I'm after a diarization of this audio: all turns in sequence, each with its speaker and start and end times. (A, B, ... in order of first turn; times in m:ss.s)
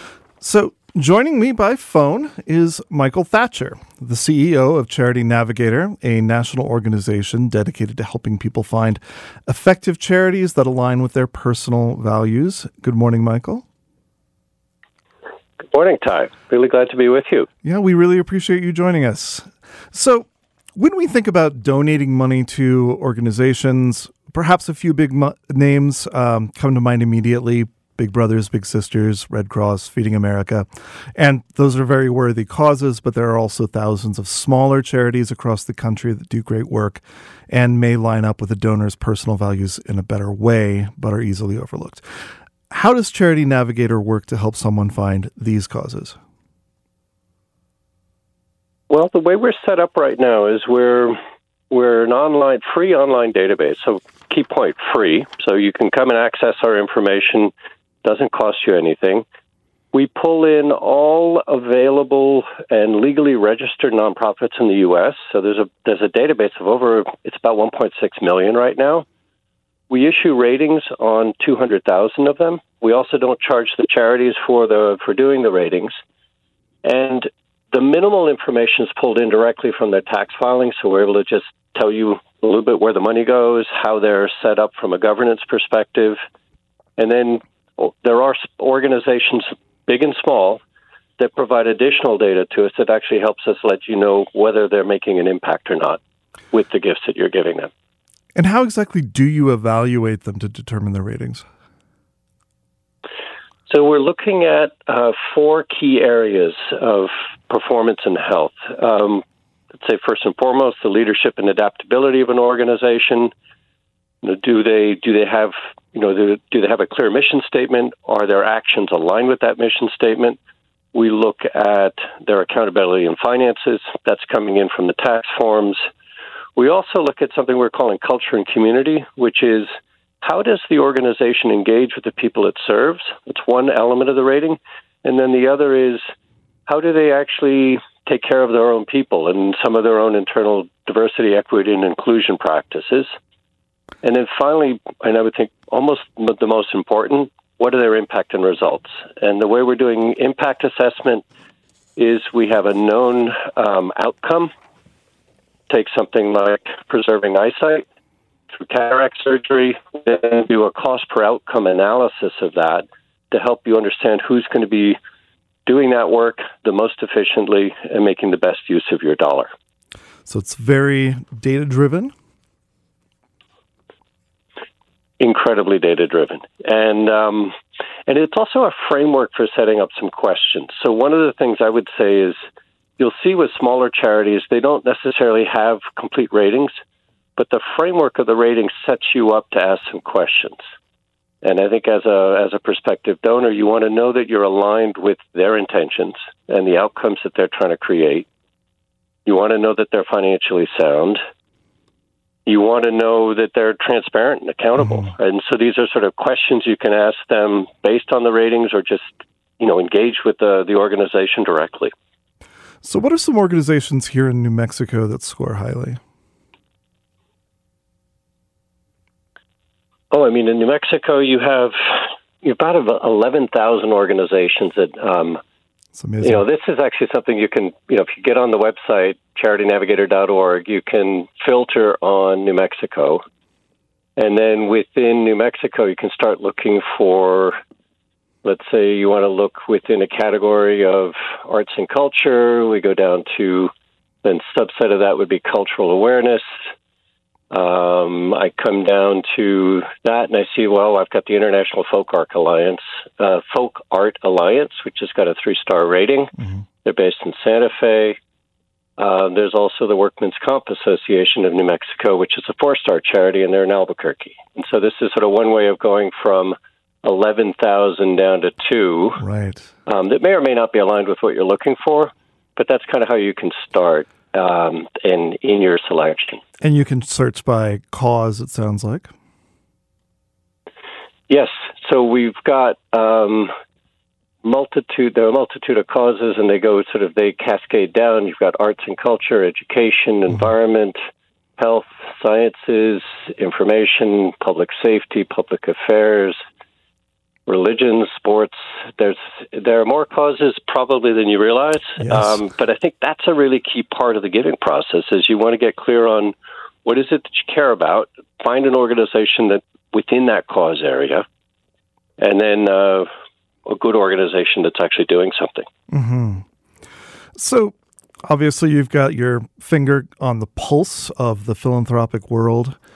0:00.4-0:13.6 A
0:15.6-0:17.5 B
0:17.6-0:46.2 A
0:48.9-0:51.2 B
0:51.7-0:57.5 B
0:58.0-0:59.2 B
0:59.9-1:09.1 B
1:09.9-1:16.0 B
1:16.8-1:26.2 B
1:27.0-1:30.6 B
1:31.2-1:36.0 B
1:36.5-1:37.7 B
1:38.4-1:41.5 A
1:43.7-1:49.2 B
1:49.8-1:53.3 B
1:54.2-2:00.4 B
2:00.9-2:05.8 B
2:06.6-2:09.7 B
2:10.2-2:16.0 B
2:16.7-2:23.1 B
2:24.0-2:31.2 B
2:32.0-2:34.5 B
2:35.7-2:37.8 B
2:38.5-2:45.0 B
2:45.7-2:49.5 B
2:50.3-2:52.1 A
2:55.2-2:57.5 B
2:58.1-3:02.4 B
3:03.0-3:06.7 B
3:07.4-3:10.6 B
3:11.4-3:18.3 B
3:19.3-3:21.2 B
3:22.5-3:31.9 B
3:24.8-3:25.1 A
3:32.8-3:36.0 A
3:40.1-3:45.4 B
3:45.9-3:46.4 A
3:46.2-3:53.2 B
3:54.2-3:57.6 B
3:58.4-4:03.7 B
4:04.2-4:06.5 B
4:07.5-4:18.2 B
4:19.0-4:29.2 B
4:29.2-4:29.7 A
4:29.9-4:36.4 B
4:36.6-4:39.1 A
4:41.3-4:43.5 B
4:44.4-4:51.0 B
4:51.6-4:56.4 B
4:57.5-5:06.3 B
5:02.0-5:02.4 A
5:06.8-5:11.2 B
5:12.2-5:13.1 B
5:13.7-5:15.7 B
5:15.9-5:16.5 A
5:17.3-5:22.8 A